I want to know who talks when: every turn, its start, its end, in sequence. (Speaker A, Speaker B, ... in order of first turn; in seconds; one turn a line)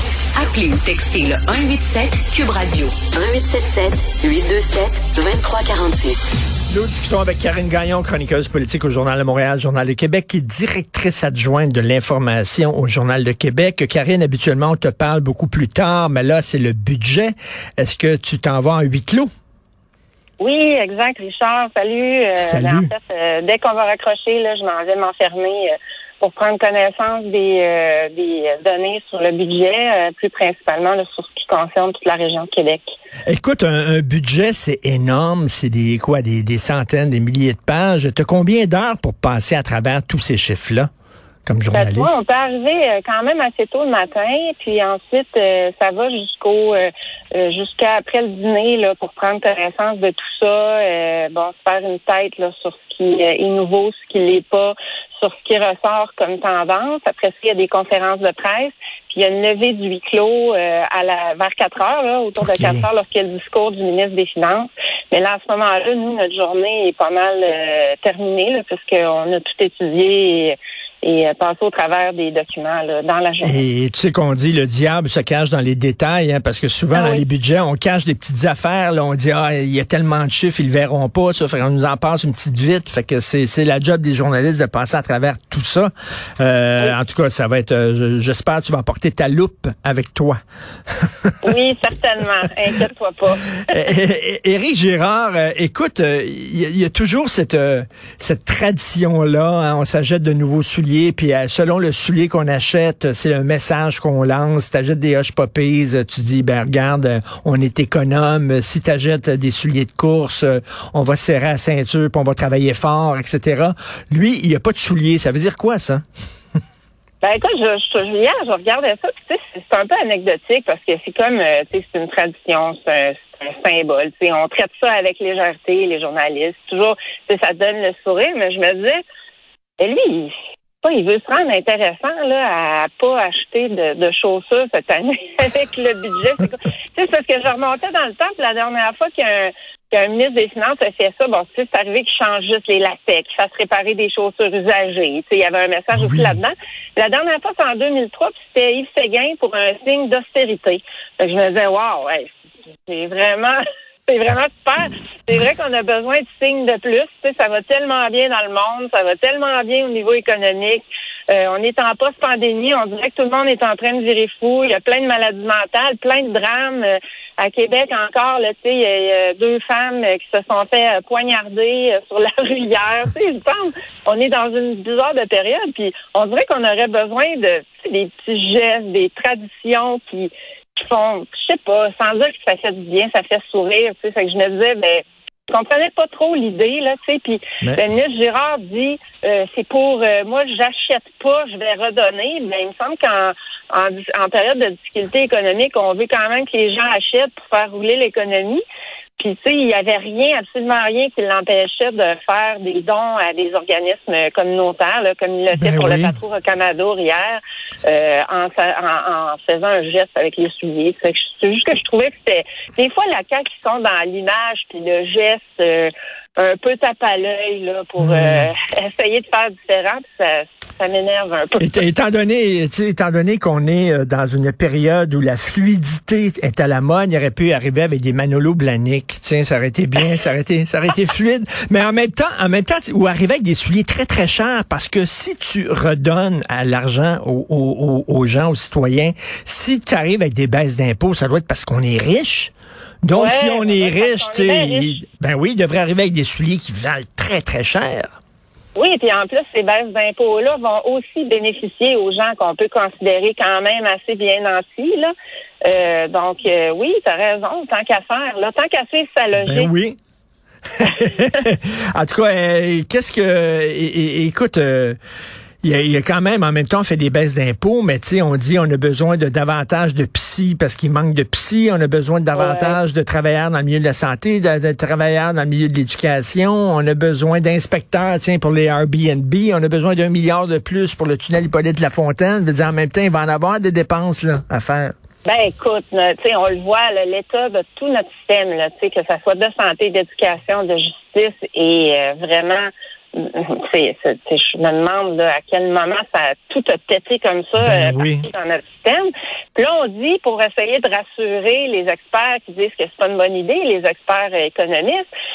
Speaker A: 0.3-6.3
Speaker B: 6.7-19.3
Speaker C: 20.4-32.9
Speaker B: 22.3-22.9
Speaker B: 33.3-40.9
Speaker B: 41.5-42.2
Speaker C: 41.7-73.6
Speaker B: 62.4-62.9
Speaker B: 73.4-90.4
Speaker C: 76.9-77.2
Speaker B: 90.9-91.5
Speaker C: 91.4-93.6
Speaker B: 93.6-116.0
Speaker C: 117.2-129.0
Speaker C: 129.8-198.6
Speaker B: 145.9-146.4
Speaker C: 199.2-221.9
Speaker B: 205.5-206.2
Speaker B: 218.0-218.5
Speaker B: 221.6-248.1
Speaker C: 243.1-245.0
Speaker C: 248.8-255.1
Speaker C: 255.6-259.7
Speaker B: 259.4-260.0
Speaker B: 260.7-265.0
Speaker B: 265.6-284.9
Speaker C: 272.3-272.8
Speaker C: 285.2-305.0
Speaker B: 297.6-298.3